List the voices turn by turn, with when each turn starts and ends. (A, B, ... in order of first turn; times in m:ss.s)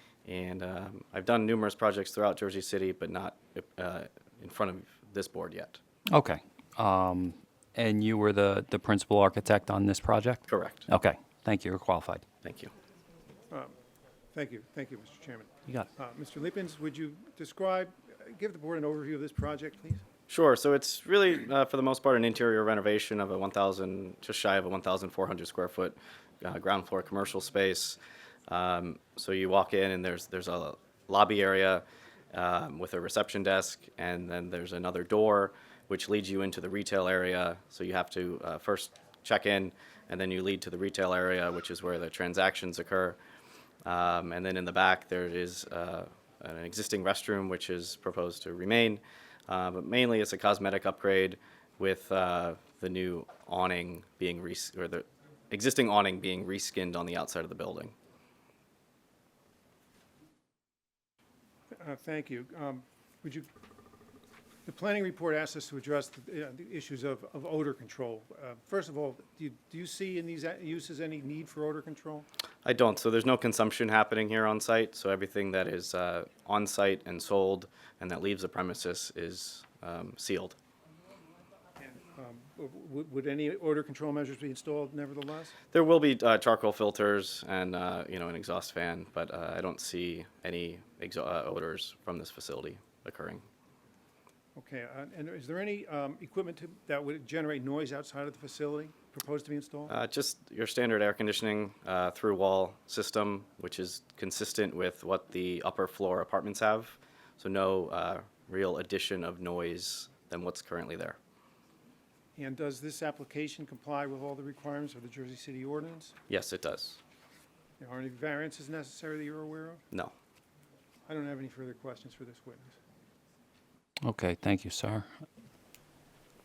0:00.3-0:05.8 A
0:06.1-0:12.2 B
0:10.5-0:10.9 A
0:12.4-0:12.7 A
0:14.3-0:20.0 C
0:20.3-0:43.2 A
0:43.8-0:57.9 A
1:01.8-1:03.5 C
1:04.7-1:12.3 C
1:12.6-1:20.6 A
1:21.8-1:25.5 C
1:25.7-1:33.4 A
1:34.6-1:39.9 C
1:39.9-1:51.2 A
1:52.4-1:56.2 C
1:56.3-1:57.0 A
1:57.8-1:59.8 C
2:01.1-2:02.8 C
2:04.0-2:05.1 B